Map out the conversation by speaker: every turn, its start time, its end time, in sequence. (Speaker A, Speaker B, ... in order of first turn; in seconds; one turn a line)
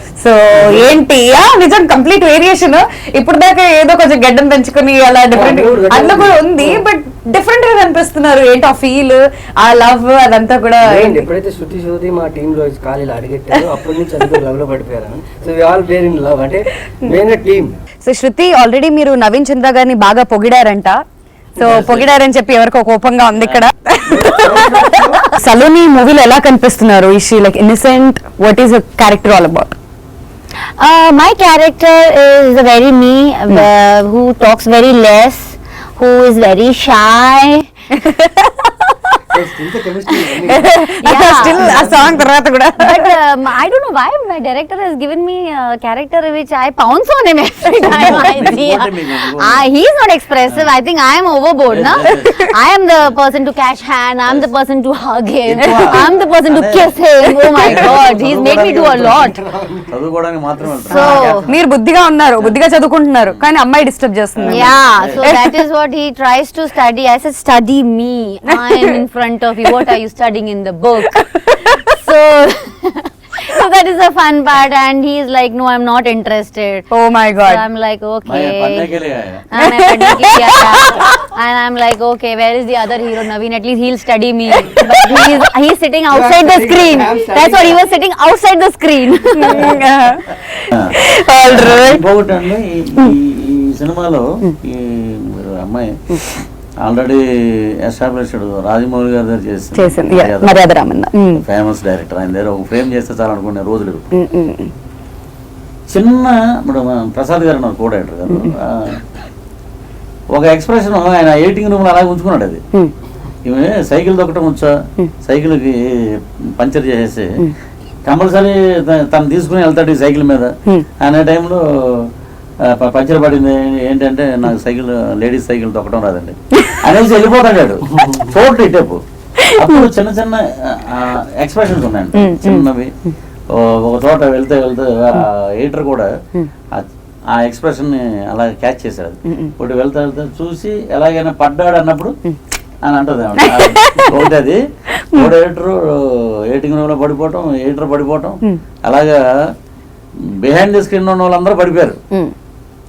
Speaker A: 0.2-11.3
Speaker B: 0.6-0.9
Speaker B: 5.3-6.8
Speaker B: 10.8-17.8
Speaker A: 18.0-21.0
Speaker A: 21.6-29.7
Speaker C: 21.6-22.1
Speaker C: 23.4-23.7
Speaker B: 24.1-25.2
Speaker D: 30.8-37.7
Speaker A: 38.0-39.1
Speaker B: 39.3-40.8
Speaker A: 40.4-43.1
Speaker D: 41.0-42.2
Speaker B: 41.3-42.2
Speaker D: 42.8-59.4
Speaker C: 47.7-49.7
Speaker C: 50.5-50.8
Speaker C: 51.7-52.4
Speaker C: 54.2-54.5
Speaker C: 55.4-59.2
Speaker B: 58.4-59.9
Speaker C: 59.9-61.5
Speaker D: 60.9-61.4
Speaker A: 60.9-65.5
Speaker C: 64.3-65.2
Speaker D: 64.5-76.9
Speaker A: 76.9-77.6
Speaker D: 77.4-78.9
Speaker C: 78.2-79.4
Speaker D: 79.5-89.8
Speaker A: 79.6-81.1
Speaker B: 86.1-87.8
Speaker A: 89.4-92.0
Speaker C: 90.7-100.6
Speaker A: 99.7-101.4
Speaker C: 101.4-104.1
Speaker A: 104.1-104.7
Speaker C: 105.9-109.0
Speaker C: 110.3-112.6
Speaker C: 113.4-115.8
Speaker C: 116.6-117.3
Speaker C: 118.0-122.1
Speaker C: 122.7-129.0
Speaker A: 129.4-129.8
Speaker C: 129.5-132.9
Speaker A: 132.2-132.7
Speaker C: 133.5-136.1
Speaker C: 136.7-142.1
Speaker A: 139.3-139.5
Speaker C: 142.8-144.6
Speaker A: 143.4-144.2
Speaker C: 145.1-149.2
Speaker C: 150.4-152.0